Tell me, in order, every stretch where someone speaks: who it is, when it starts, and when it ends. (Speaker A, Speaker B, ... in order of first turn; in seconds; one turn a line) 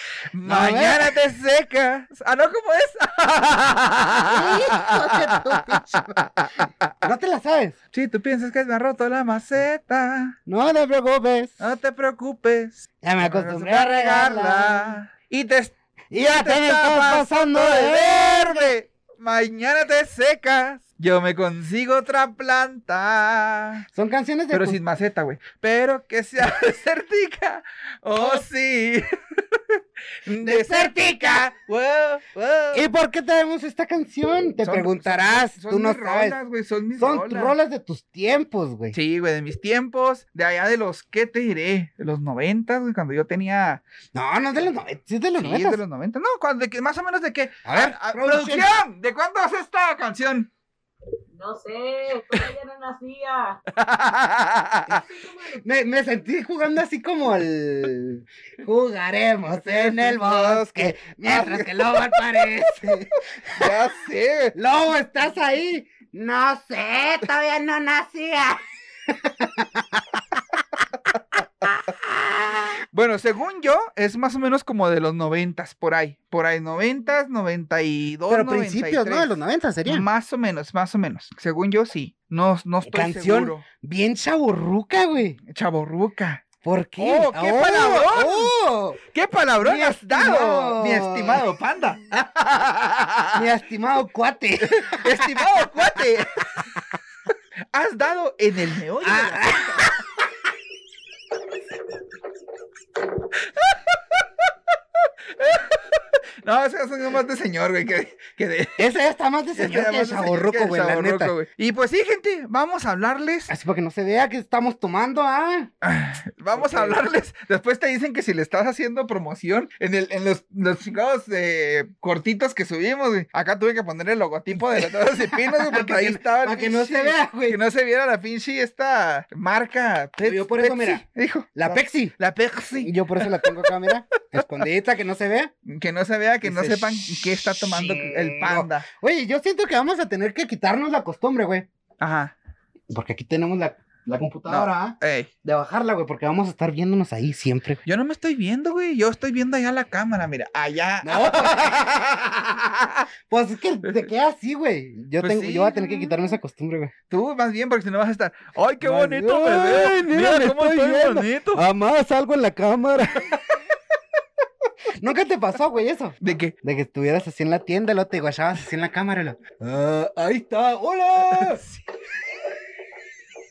Speaker A: 0.3-6.9
Speaker B: 0.4-1.1
Speaker B: 4.2-6.2
Speaker B: 7.0-7.8
Speaker A: 7.9-10.3
Speaker B: 10.5-11.6
Speaker A: 11.6-23.9
Speaker B: 13.0-15.0
Speaker B: 16.1-18.7
Speaker B: 23.9-24.8
Speaker A: 24.5-32.9
Speaker B: 30.4-31.5
Speaker B: 32.7-36.4
Speaker A: 34.6-37.6
Speaker B: 37.0-39.0
Speaker A: 38.9-43.8
Speaker B: 44.1-45.8
Speaker A: 45.4-50.5
Speaker B: 47.6-48.8
Speaker C: 51.3-53.6
Speaker A: 53.7-55.0
Speaker C: 54.9-55.6
Speaker B: 55.6-63.6
Speaker A: 59.6-62.4
Speaker A: 63.5-64.5
Speaker B: 64.5-68.6
Speaker B: 69.1-70.0
Speaker B: 72.2-72.5
Speaker A: 72.9-83.6
Speaker B: 78.3-80.1
Speaker B: 82.8-85.4
Speaker A: 85.5-86.4
Speaker B: 86.6-89.0
Speaker A: 87.0-93.5
Speaker B: 89.6-91.4
Speaker B: 93.3-95.7
Speaker A: 94.6-96.3
Speaker A: 97.7-99.9
Speaker B: 99.0-99.9
Speaker A: 103.3-104.5
Speaker A: 105.3-108.8
Speaker B: 108.8-111.3
Speaker A: 109.5-113.5
Speaker B: 113.5-115.7
Speaker A: 115.8-133.7
Speaker B: 116.5-117.0
Speaker B: 124.6-127.6
Speaker B: 130.2-132.2
Speaker B: 132.8-135.5
Speaker A: 134.3-134.6
Speaker A: 135.7-138.9
Speaker B: 136.4-141.7
Speaker A: 142.0-142.3
Speaker B: 142.9-147.8
Speaker A: 144.5-145.3
Speaker A: 147.8-153.0
Speaker B: 151.0-151.8
Speaker B: 153.3-156.9
Speaker A: 153.8-154.1
Speaker A: 155.2-156.2
Speaker A: 157.1-161.6
Speaker B: 158.8-163.4
Speaker B: 165.0-171.6
Speaker A: 166.2-166.5
Speaker A: 171.3-171.8